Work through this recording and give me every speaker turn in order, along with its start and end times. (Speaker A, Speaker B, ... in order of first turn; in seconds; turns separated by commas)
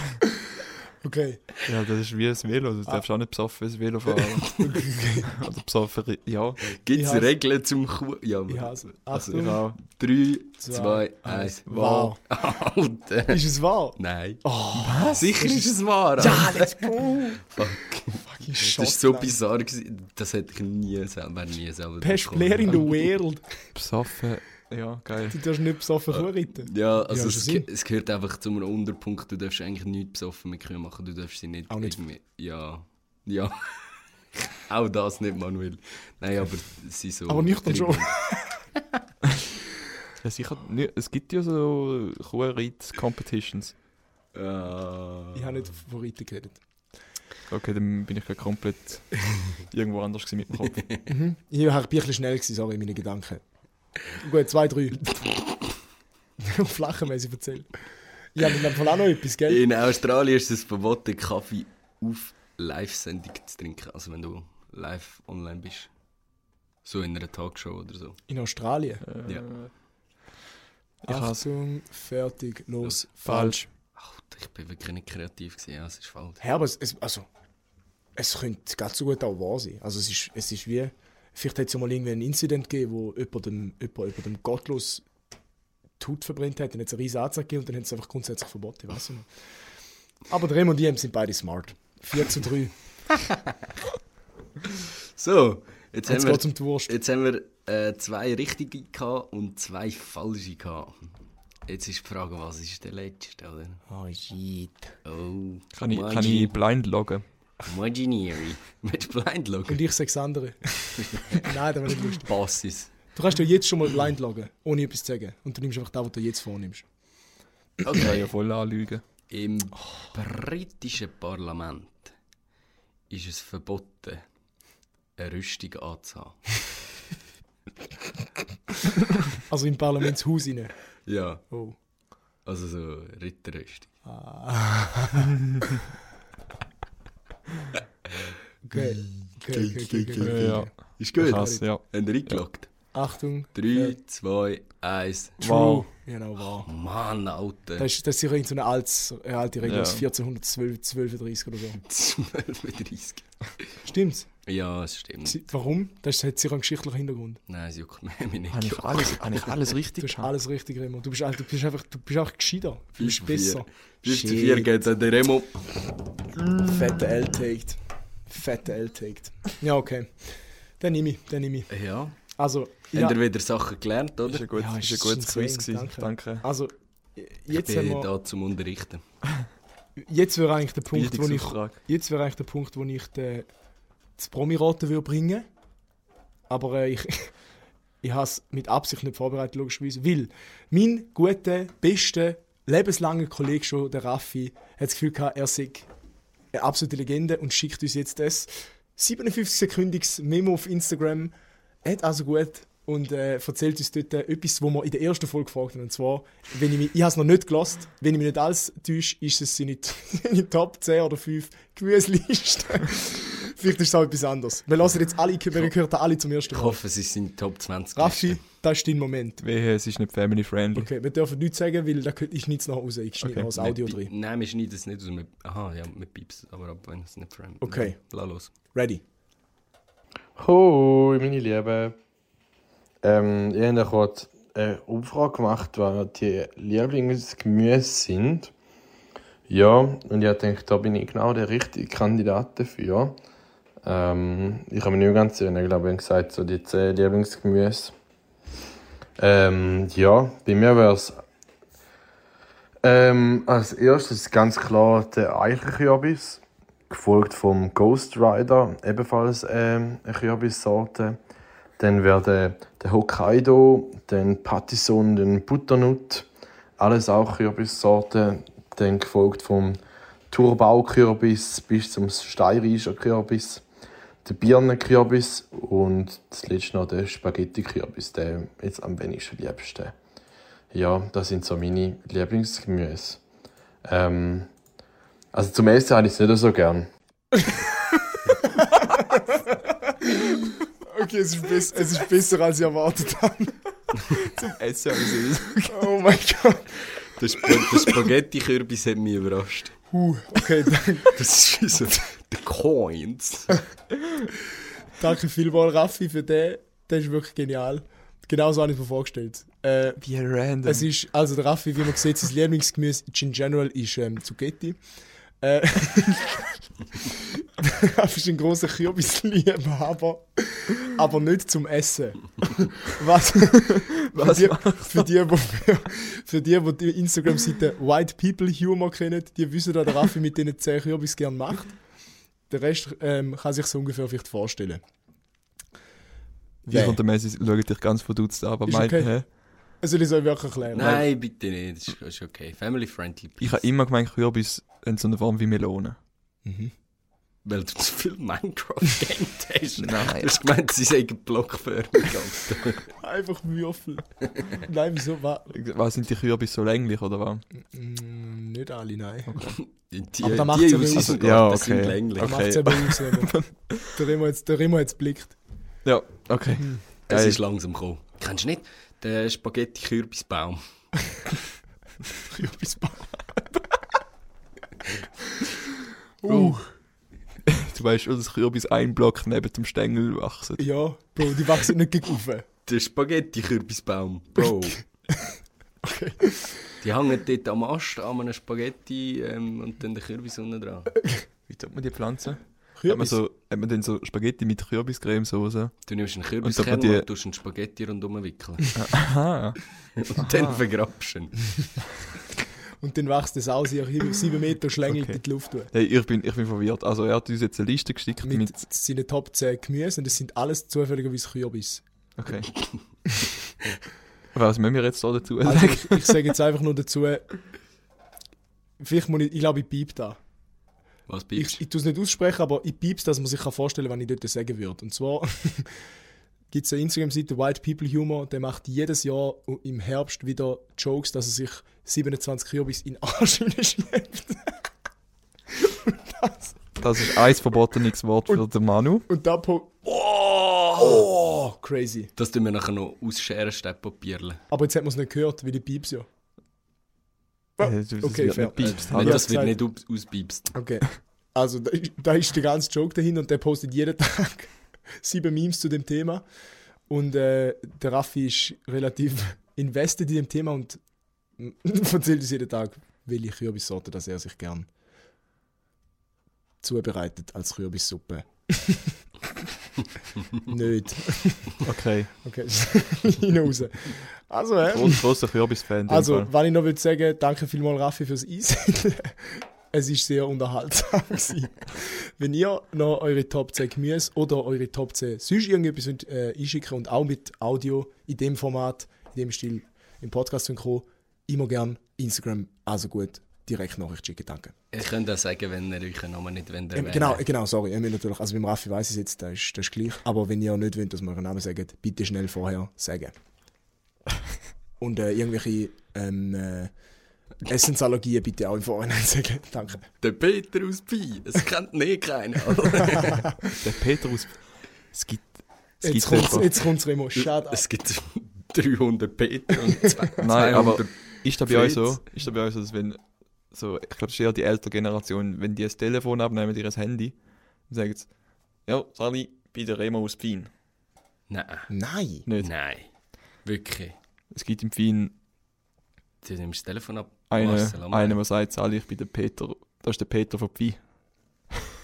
Speaker A: 1.0-1.4, Speaker B: 1.7-4.6, Speaker A: 4.5-5.3, Speaker B: 5.2-6.6, Speaker C: 6.6-11.7, Speaker A: 6.9-7.3, Speaker A: 8.5-9.6, Speaker B: 9.3-9.8, Speaker A: 10.6-12.2, Speaker B: 11.7-12.1, Speaker C: 12.2-13.4, Speaker A: 13.3-17.4, Speaker C: 14.0-14.4, Speaker B: 14.8-15.4, Speaker C: 15.1-23.1, Speaker A: 18.2-19.4, Speaker A: 22.0-23.4, Speaker B: 23.8-25.4, Speaker A: 25.3-27.6, Speaker C: 26.1-33.7, Speaker A: 31.7-32.0, Speaker C: 34.7-38.2, Speaker A: 37.3-38.4, Speaker B: 40.2-43.7, Speaker C: 44.3-45.6, Speaker A: 45.4-46.6, Speaker B: 47.5-50.8, Speaker C: 50.7-51.0, Speaker A: 51.1-53.4, Speaker A: 54.1-55.2, Speaker A: 56.4-57.7, Speaker A: 58.3-59.6, Speaker C: 59.5-65.9, Speaker C: 66.8-68.2, Speaker A: 68.3-69.0, Speaker B: 69.0-69.7, Speaker B: 71.0-71.5, Speaker A: 71.0-73.6, Speaker B: 73.2-73.7, Speaker C: 74.0-76.4, Speaker A: 76.4-77.2, Speaker A: 78.2-85.0, Speaker A: 86.0-89.3, Speaker A: 90.3-92.7, Speaker C: 94.7-101.1, Speaker A: 96.1-96.9, Speaker C: 101.7-103.8, Speaker A: 103.9-104.9, Speaker C: 105.0-106.6, Speaker B: 105.8-107.2, Speaker C: 107.6-109.8, Speaker A: 109.7-112.3, Speaker C: 111.0-111.5, Speaker C: 112.0-112.9, Speaker A: 113.2-116.8, Speaker C: 117.8-118.2, Speaker B: 117.9-119.0, Speaker C: 119.3-122.1, Speaker C: 123.1-124.2, Speaker C: 125.2-126.5, Speaker A: 129.5-130.8, Speaker C: 131.1-131.4, Speaker A: 131.5-131.8, Speaker C: 132.4-133.9, Speaker A: 134.1-135.4, Speaker C: 138.2-142.7, Speaker A: 138.7-141.6, Speaker B: 140.2-142.4, Speaker A: 142.9-144.0, Speaker C: 143.6-145.4, Speaker A: 145.4-146.7, Speaker B: 145.4-145.9, Speaker C: 146.7-147.9, Speaker A: 147.8-151.8, Speaker B: 149.6-150.1, Speaker C: 151.8-153.7, Speaker A: 153.8-154.3, Speaker C: 154.5-155.4, Speaker A: 155.3-157.4, Speaker C: 157.5-159.8, Speaker B: 158.5-160.3, Speaker A: 160.0-164.7, Speaker C: 163.0-165.7, Speaker A: 166.6-171.7, Speaker C: 171.7-172.2, Speaker A: 172.4-173.2, Speaker C: 172.9-174.5, Speaker B: 174.3-176.4, Speaker A: 174.5-178.1, Speaker C: 177.5-179.0, Speaker A: 180.0-183.5, Speaker B: 180.9-181.8, Speaker A: 184.2-185.5, Speaker A: 186.5-187.3, Speaker A: 188.0-195.9, Speaker A: 196.5-216.8, Speaker C: 216.5-218.4, Speaker A: 217.9-219.4, Speaker B: 219.4-220.9, Speaker A: 220.8-224.1, Speaker B: 223.2-223.5, Speaker C: 223.6-228.5, Speaker A: 227.6-228.0, Speaker A: 228.7-229.0, Speaker D: 230.4-232.0, Speaker D: 233.0-238.5, Speaker D: 239.5-243.2, Speaker D: 243.8-247.9, Speaker D: 249.2-251.2, Speaker D: 252.8-261.2, Speaker D: 261.8-273.6, Speaker D: 274.2-279.9, Speaker D: 280.7-283.2, Speaker D: 283.8-284.5, Speaker D: 285.3-286.9, Speaker A: 287.4-287.6, Speaker A: 288.4-293.6, Speaker B: 294.1-295.9, Speaker A: 295.7-296.8, Speaker C: 297.0-299.8, Speaker A: 299.9-301.2, Speaker C: 301.1-303.6, Speaker A: 305.0-310.0, Speaker B: 310.0-310.9, Speaker A: 310.6-314.8, Speaker A: 315.4-316.5, Speaker A: 317.0-331.8, Speaker B: 323.7-325.1, Speaker A: 332.5-334.8, Speaker B: 336.7-339.3, Speaker A: 336.7-337.0, Speaker A: 338.7-339.1, Speaker A: 339.8-341.1, Speaker C: 340.7-343.6, Speaker B: 343.4-346.0, Speaker A: 346.4-346.7, Speaker C: 347.4-352.9, Speaker B: 349.8-350.4, Speaker A: 353.0-355.5, Speaker B: 355.5-357.4, Speaker A: 357.6-359.6, Speaker B: 359.3-359.6, Speaker C: 359.4-362.4, Speaker A: 360.2-361.3, Speaker B: 360.9-364.0, Speaker A: 362.2-365.4, Speaker B: 365.9-367.4, Speaker C: 367.1-370.6, Speaker A: 372.1-373.2, Speaker A: 376.2-376.7, Speaker B: 377.5-380.6, Speaker A: 380.6-382.5, Speaker C: 382.7-384.8, Speaker A: 385.8-386.7, Speaker C: 386.8-390.9, Speaker A: 391.0-391.2, Speaker B: 391.5-395.8, Speaker A: 392.8-393.2, Speaker C: 395.9-398.8, Speaker B: 396.4-397.1, Speaker B: 398.8-399.6, Speaker C: 400.0-401.5, Speaker B: 400.1-400.6, Speaker A: 402.8-405.7, Speaker B: 404.9-405.2, Speaker B: 405.7-408.5, Speaker A: 408.2-411.8, Speaker B: 412.2-412.5, Speaker B: 414.3-416.2, Speaker A: 415.4-417.3, Speaker A: 418.8-420.2, Speaker C: 421.1-421.6, Speaker A: 421.4-425.8, Speaker A: 426.5-434.6, Speaker A: 435.6-436.6, Speaker B: 436.8-439.1, Speaker A: 439.1-442.1, Speaker C: 442.2-444.4, Speaker A: 444.5-446.1, Speaker B: 447.6-449.4, Speaker A: 447.6-449.6, Speaker C: 448.6-450.5, Speaker A: 450.5-456.2, Speaker A: 456.9-460.8, Speaker A: 461.4-464.7, Speaker A: 466.6-469.0, Speaker A: 470.4-471.6, Speaker B: 471.6-472.1, Speaker A: 472.2-475.1, Speaker B: 474.7-476.3, Speaker A: 475.9-494.5, Speaker C: 494.7-497.2, Speaker A: 496.8-503.1, Speaker A: 504.8-506.7, Speaker A: 507.4-509.9, Speaker C: 510.0-513.3, Speaker A: 513.0-513.3, Speaker B: 513.6-516.5, Speaker A: 515.8-517.6, Speaker C: 517.2-522.0, Speaker B: 520.2-527.2, Speaker B: 527.7-528.1, Speaker B: 528.7-530.5, Speaker C: 531.3-531.7, Speaker A: 531.7-532.3, Speaker B: 532.3-532.5, Speaker C: 532.4-532.9, Speaker C: 533.5-534.0, Speaker B: 534.3-535.1, Speaker C: 536.2-538.2, Speaker B: 537.3-540.8